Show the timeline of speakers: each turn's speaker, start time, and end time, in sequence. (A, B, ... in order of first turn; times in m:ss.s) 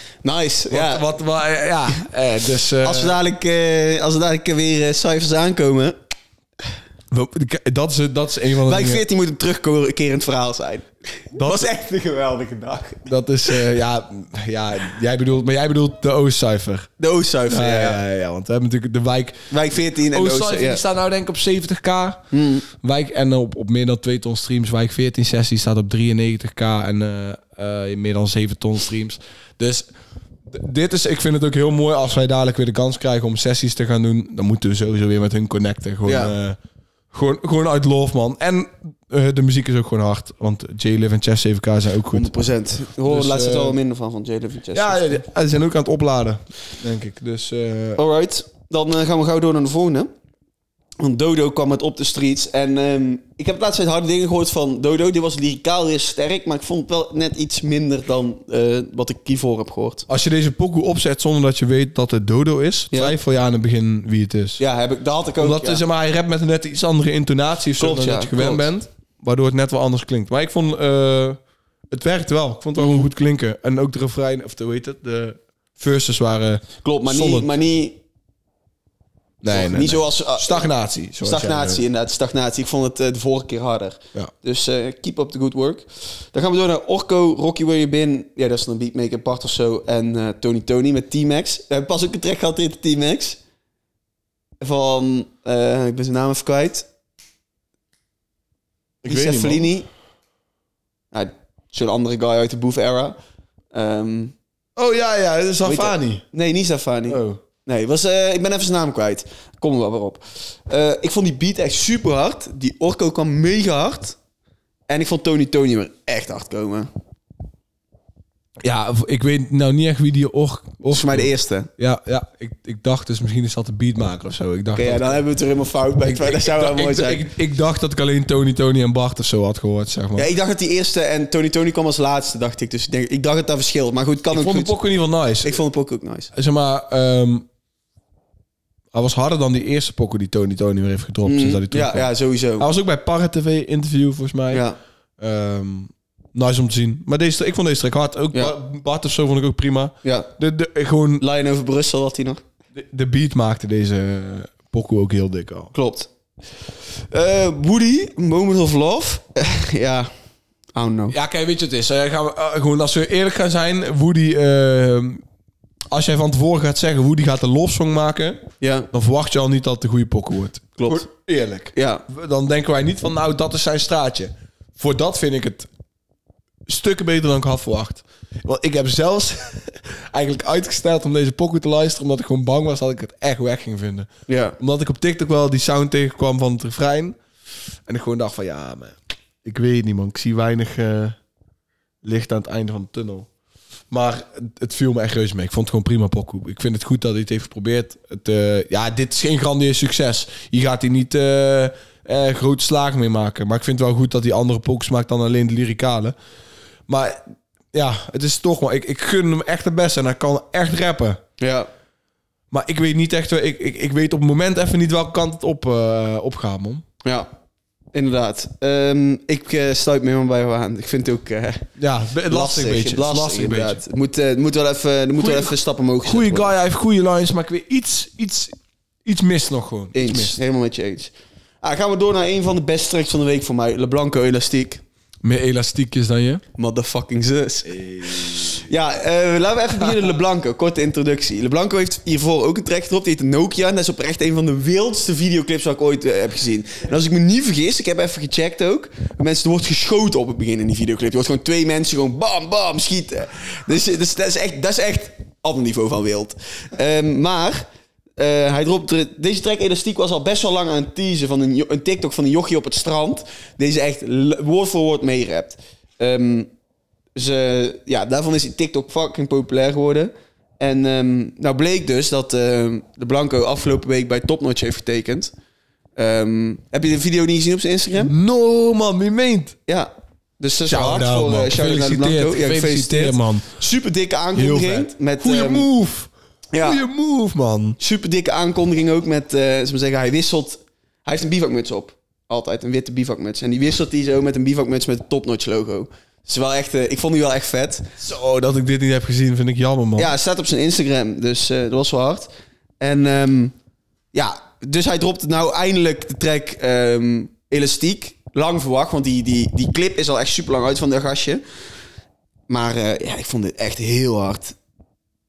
0:00.2-0:01.1 A
0:00.7-0:03.2 B
0:02.8-0:06.0 A
0:07.1-0:09.0 B
0:08.6-0:13.1 A
0:11.3-0:11.6 B
0:13.0-0:16.9 B
0:17.0-0:18.0 A
0:17.5-0:29.9 B
0:19.5-0:20.8 A
0:22.3-0:22.6 A
0:30.5-0:36.6 B
0:36.0-0:36.3 A
0:37.1-0:42.3 B
0:42.1-0:45.2 A
0:43.0-0:43.8 B
0:44.7-0:48.0 B
0:48.0-0:50.1 A
0:51.0-1:00.1 A
1:00.1-1:04.6 B
1:04.6-1:05.8 A
1:05.4-1:11.4 B
1:07.8-1:08.7 A
1:11.9-1:17.5 B
1:12.8-1:13.0 A
1:16.8-1:18.0 A
1:19.4-1:21.8 B
1:19.5-1:20.7 A
1:21.2-1:33.4 A
1:34.6-1:36.9 A
1:39.0-1:39.7 B
1:39.0-1:39.9 A
1:41.1-1:43.2 A
1:43.7-1:44.3 A
1:44.8-1:46.2 B
1:45.6-1:54.2 A
1:47.1-1:47.4 B
1:54.9-1:56.9 A
1:58.6-2:05.2 B
2:00.8-2:01.7 A
2:04.7-2:07.3 A
2:06.0-2:10.3 B
2:10.2-2:14.8 A
2:14.3-2:15.6 B
2:15.4-2:16.3 A
2:16.3-2:17.5 B
2:18.9-2:24.6 B
2:21.2-2:22.7 A
2:24.5-2:24.8 A
2:25.2-2:31.2 B
2:30.0-2:30.3 A
2:31.2-2:32.4 A
2:32.7-2:35.7 B
2:35.7-2:36.1 A
2:37.1-2:40.1 A
2:40.7-2:41.2 A
2:41.1-2:45.2 B
2:45.9-2:55.7 B
2:48.6-2:48.9 A
2:50.8-2:51.1 A
2:51.7-2:52.0 A
2:56.7-3:07.2 B
3:04.3-3:04.6 A
3:07.9-3:11.2 B
3:12.0-3:13.3 B
3:13.9-3:26.1 B
3:26.9-3:27.2 B
3:27.7-3:31.2 B
3:31.4-3:31.7 A
3:32.5-3:36.8 B
3:37.0-3:37.3 A
3:37.9-3:41.7 A
3:41.8-3:43.8 B
3:42.3-3:46.5 A
3:45.2-3:50.4 B
3:49.9-3:54.8 A
3:55.2-3:56.4 B
3:56.6-4:17.7 A
3:57.6-3:58.7 B
4:18.2-4:26.5 A
4:27.1-4:35.3 A
4:36.0-4:38.1 A
4:38.0-4:39.6 B
4:39.7-4:45.7 A
4:40.6-4:43.6 B
4:44.3-4:47.8 B
4:46.5-4:46.8 A
4:47.8-4:57.9 A
4:58.0-5:00.1 B
5:00.0-5:03.5 A
5:04.1-5:11.4 A
5:12.5-5:14.6 A